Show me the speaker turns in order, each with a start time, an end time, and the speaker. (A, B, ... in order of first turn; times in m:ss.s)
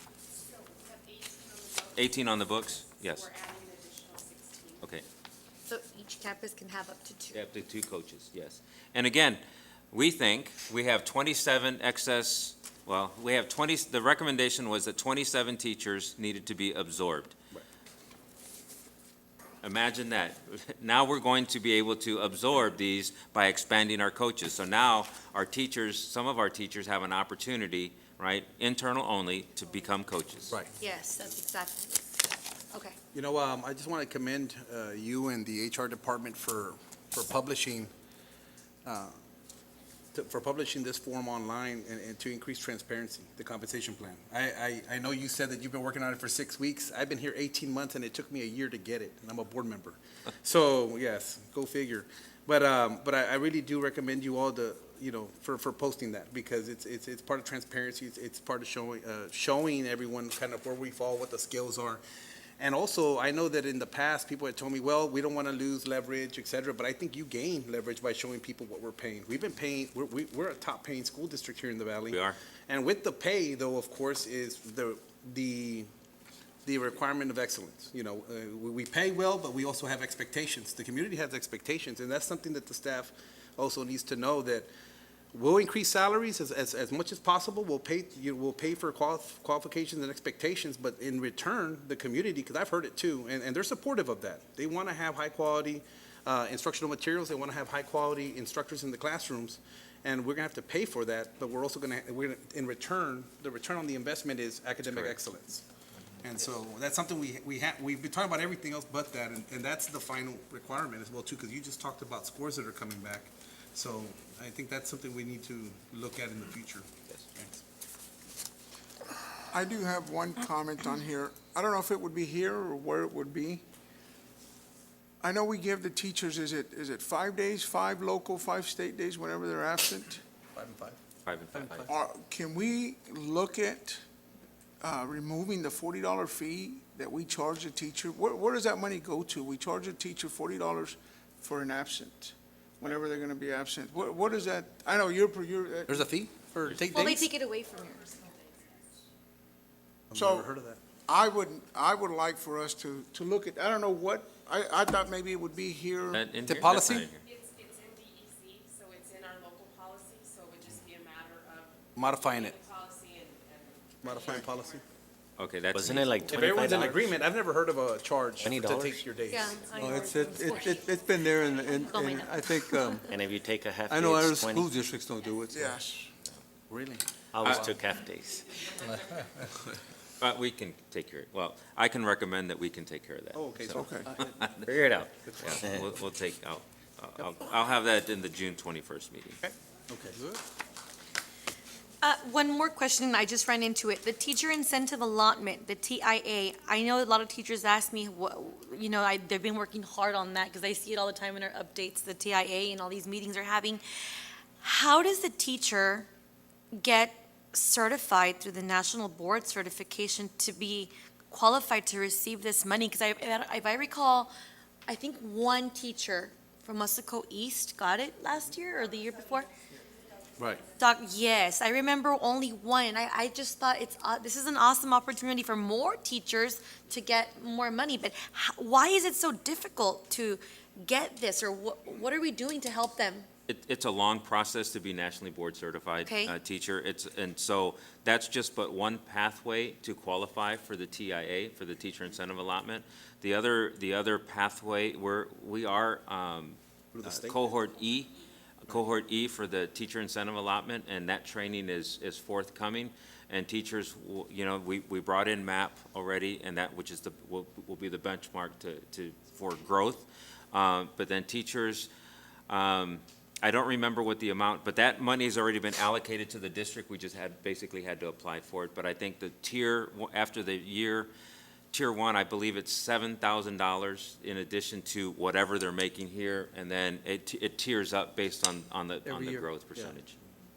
0:00.3-0:04.9 A
0:02.0-0:03.3 B
0:05.7-0:07.4 C
0:07.3-0:17.4 B
0:19.6-0:30.6 B
0:30.8-0:33.0 C
0:33.1-0:37.9 D
0:38.8-0:39.2 D
0:40.1-1:02.0 D
1:02.6-1:15.9 D
1:12.1-1:12.4 B
1:16.6-1:24.7 D
1:25.3-1:45.6 D
1:44.8-1:45.2 B
1:46.2-1:57.6 D
1:59.5-2:03.6 E
2:05.2-2:10.2 E
2:10.6-2:11.0 D
2:11.2-2:11.9 B
2:11.6-2:11.9 D
2:11.9-2:14.0 E
2:14.8-2:26.1 E
2:25.9-2:27.3 D
2:26.6-2:26.9 B
2:26.9-2:28.3 C
2:30.1-2:30.8 D
2:30.2-2:30.5 E
2:31.1-2:36.2 E
2:36.1-2:37.2 B
2:36.5-2:37.1 D
2:37.2-2:44.9 A
2:42.0-2:42.6 D
2:44.0-2:44.8 D
2:45.4-2:46.4 B
2:45.7-2:47.1 F
2:46.2-2:49.7 D
2:48.4-2:49.0 F
2:49.3-2:53.2 C
2:49.6-2:52.4 A
2:49.8-2:53.1 G
2:53.1-2:54.7 F
2:53.9-2:55.6 G
2:55.5-2:56.1 E
2:57.3-2:58.5 F
2:57.4-2:57.7 B
3:00.2-3:09.4 B
3:03.3-3:04.0 D
3:03.7-3:04.1 E
3:04.1-3:05.1 F
3:05.2-3:05.6 D
3:09.9-3:10.4 D
3:12.0-3:23.8 C
3:24.6-3:26.1 C
3:26.7-3:34.3 C
3:34.9-3:39.5 C
3:40.4-3:40.6 D
3:40.7-3:53.3 C
3:53.5-4:08.1 B
3:56.0-3:56.3 C
4:06.9-4:07.4 D
4:08.6-4:21.9 B
4:22.5-4:31.1 B
4:31.7-4:40.2 B
4:39.1-4:40.0 D